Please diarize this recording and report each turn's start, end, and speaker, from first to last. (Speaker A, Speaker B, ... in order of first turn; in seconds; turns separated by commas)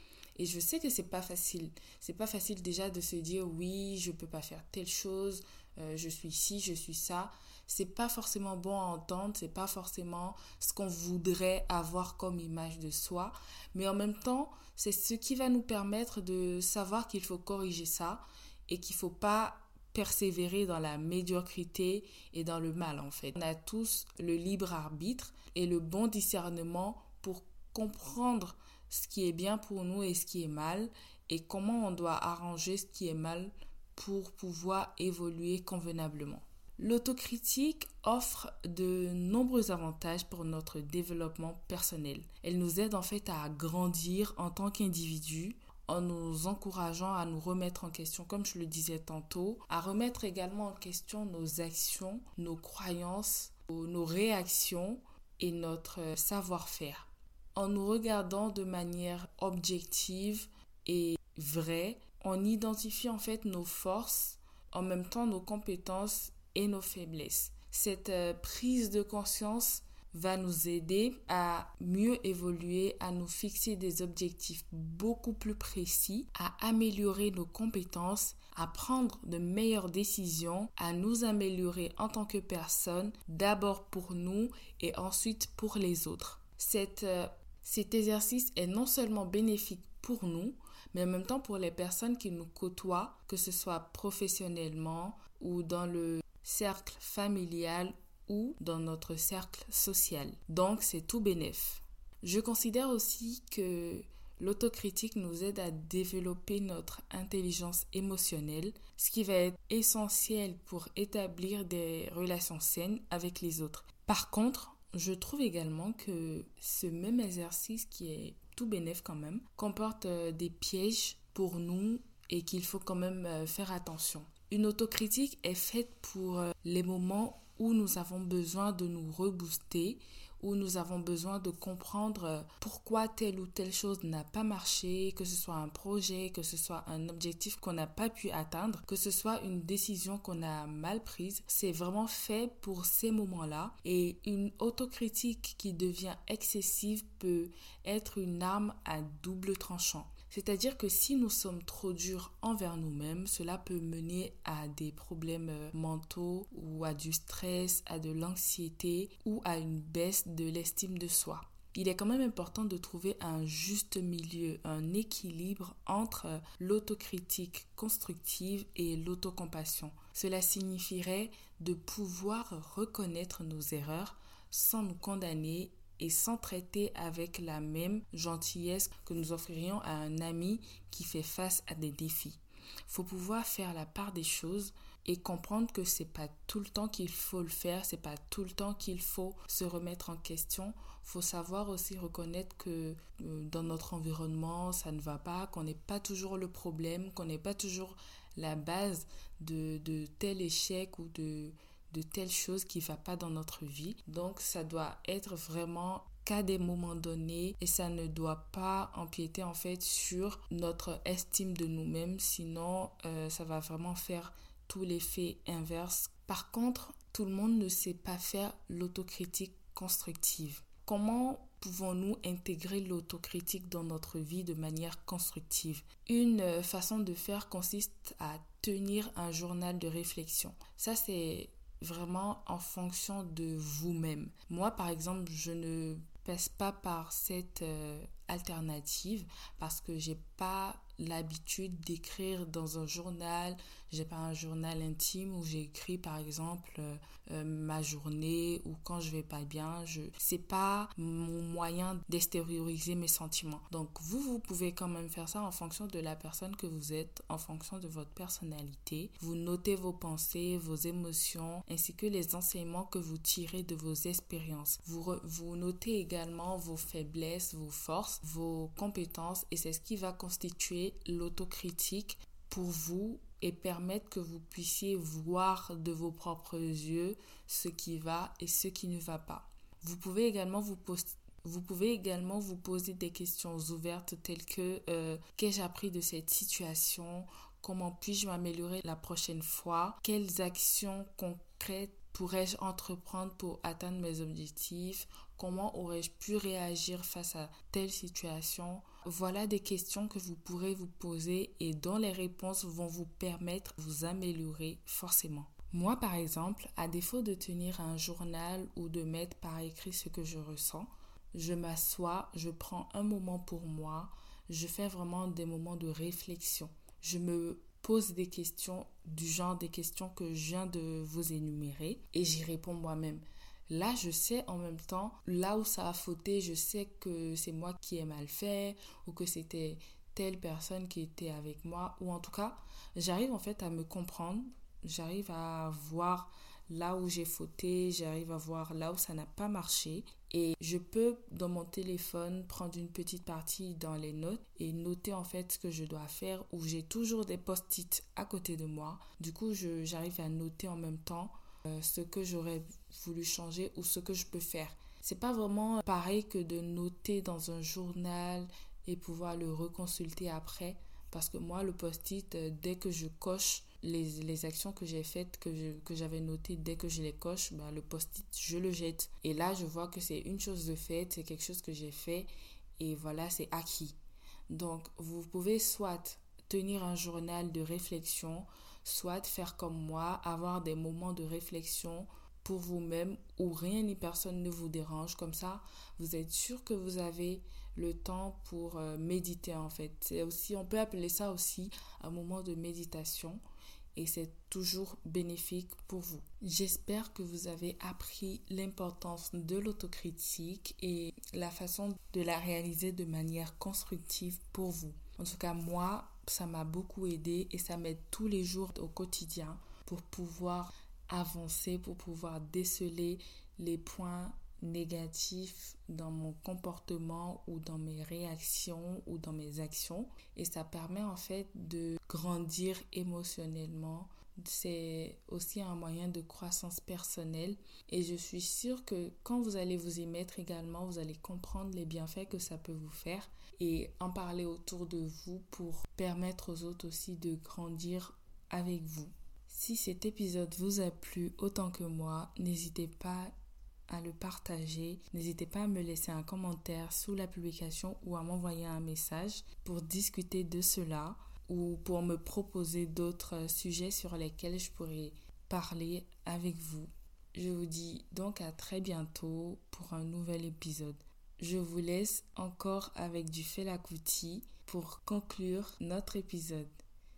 Speaker A: 0.4-374.0, Speaker A: 374.5-393.4, Speaker A: 393.9-443.3, Speaker A: 443.9-466.8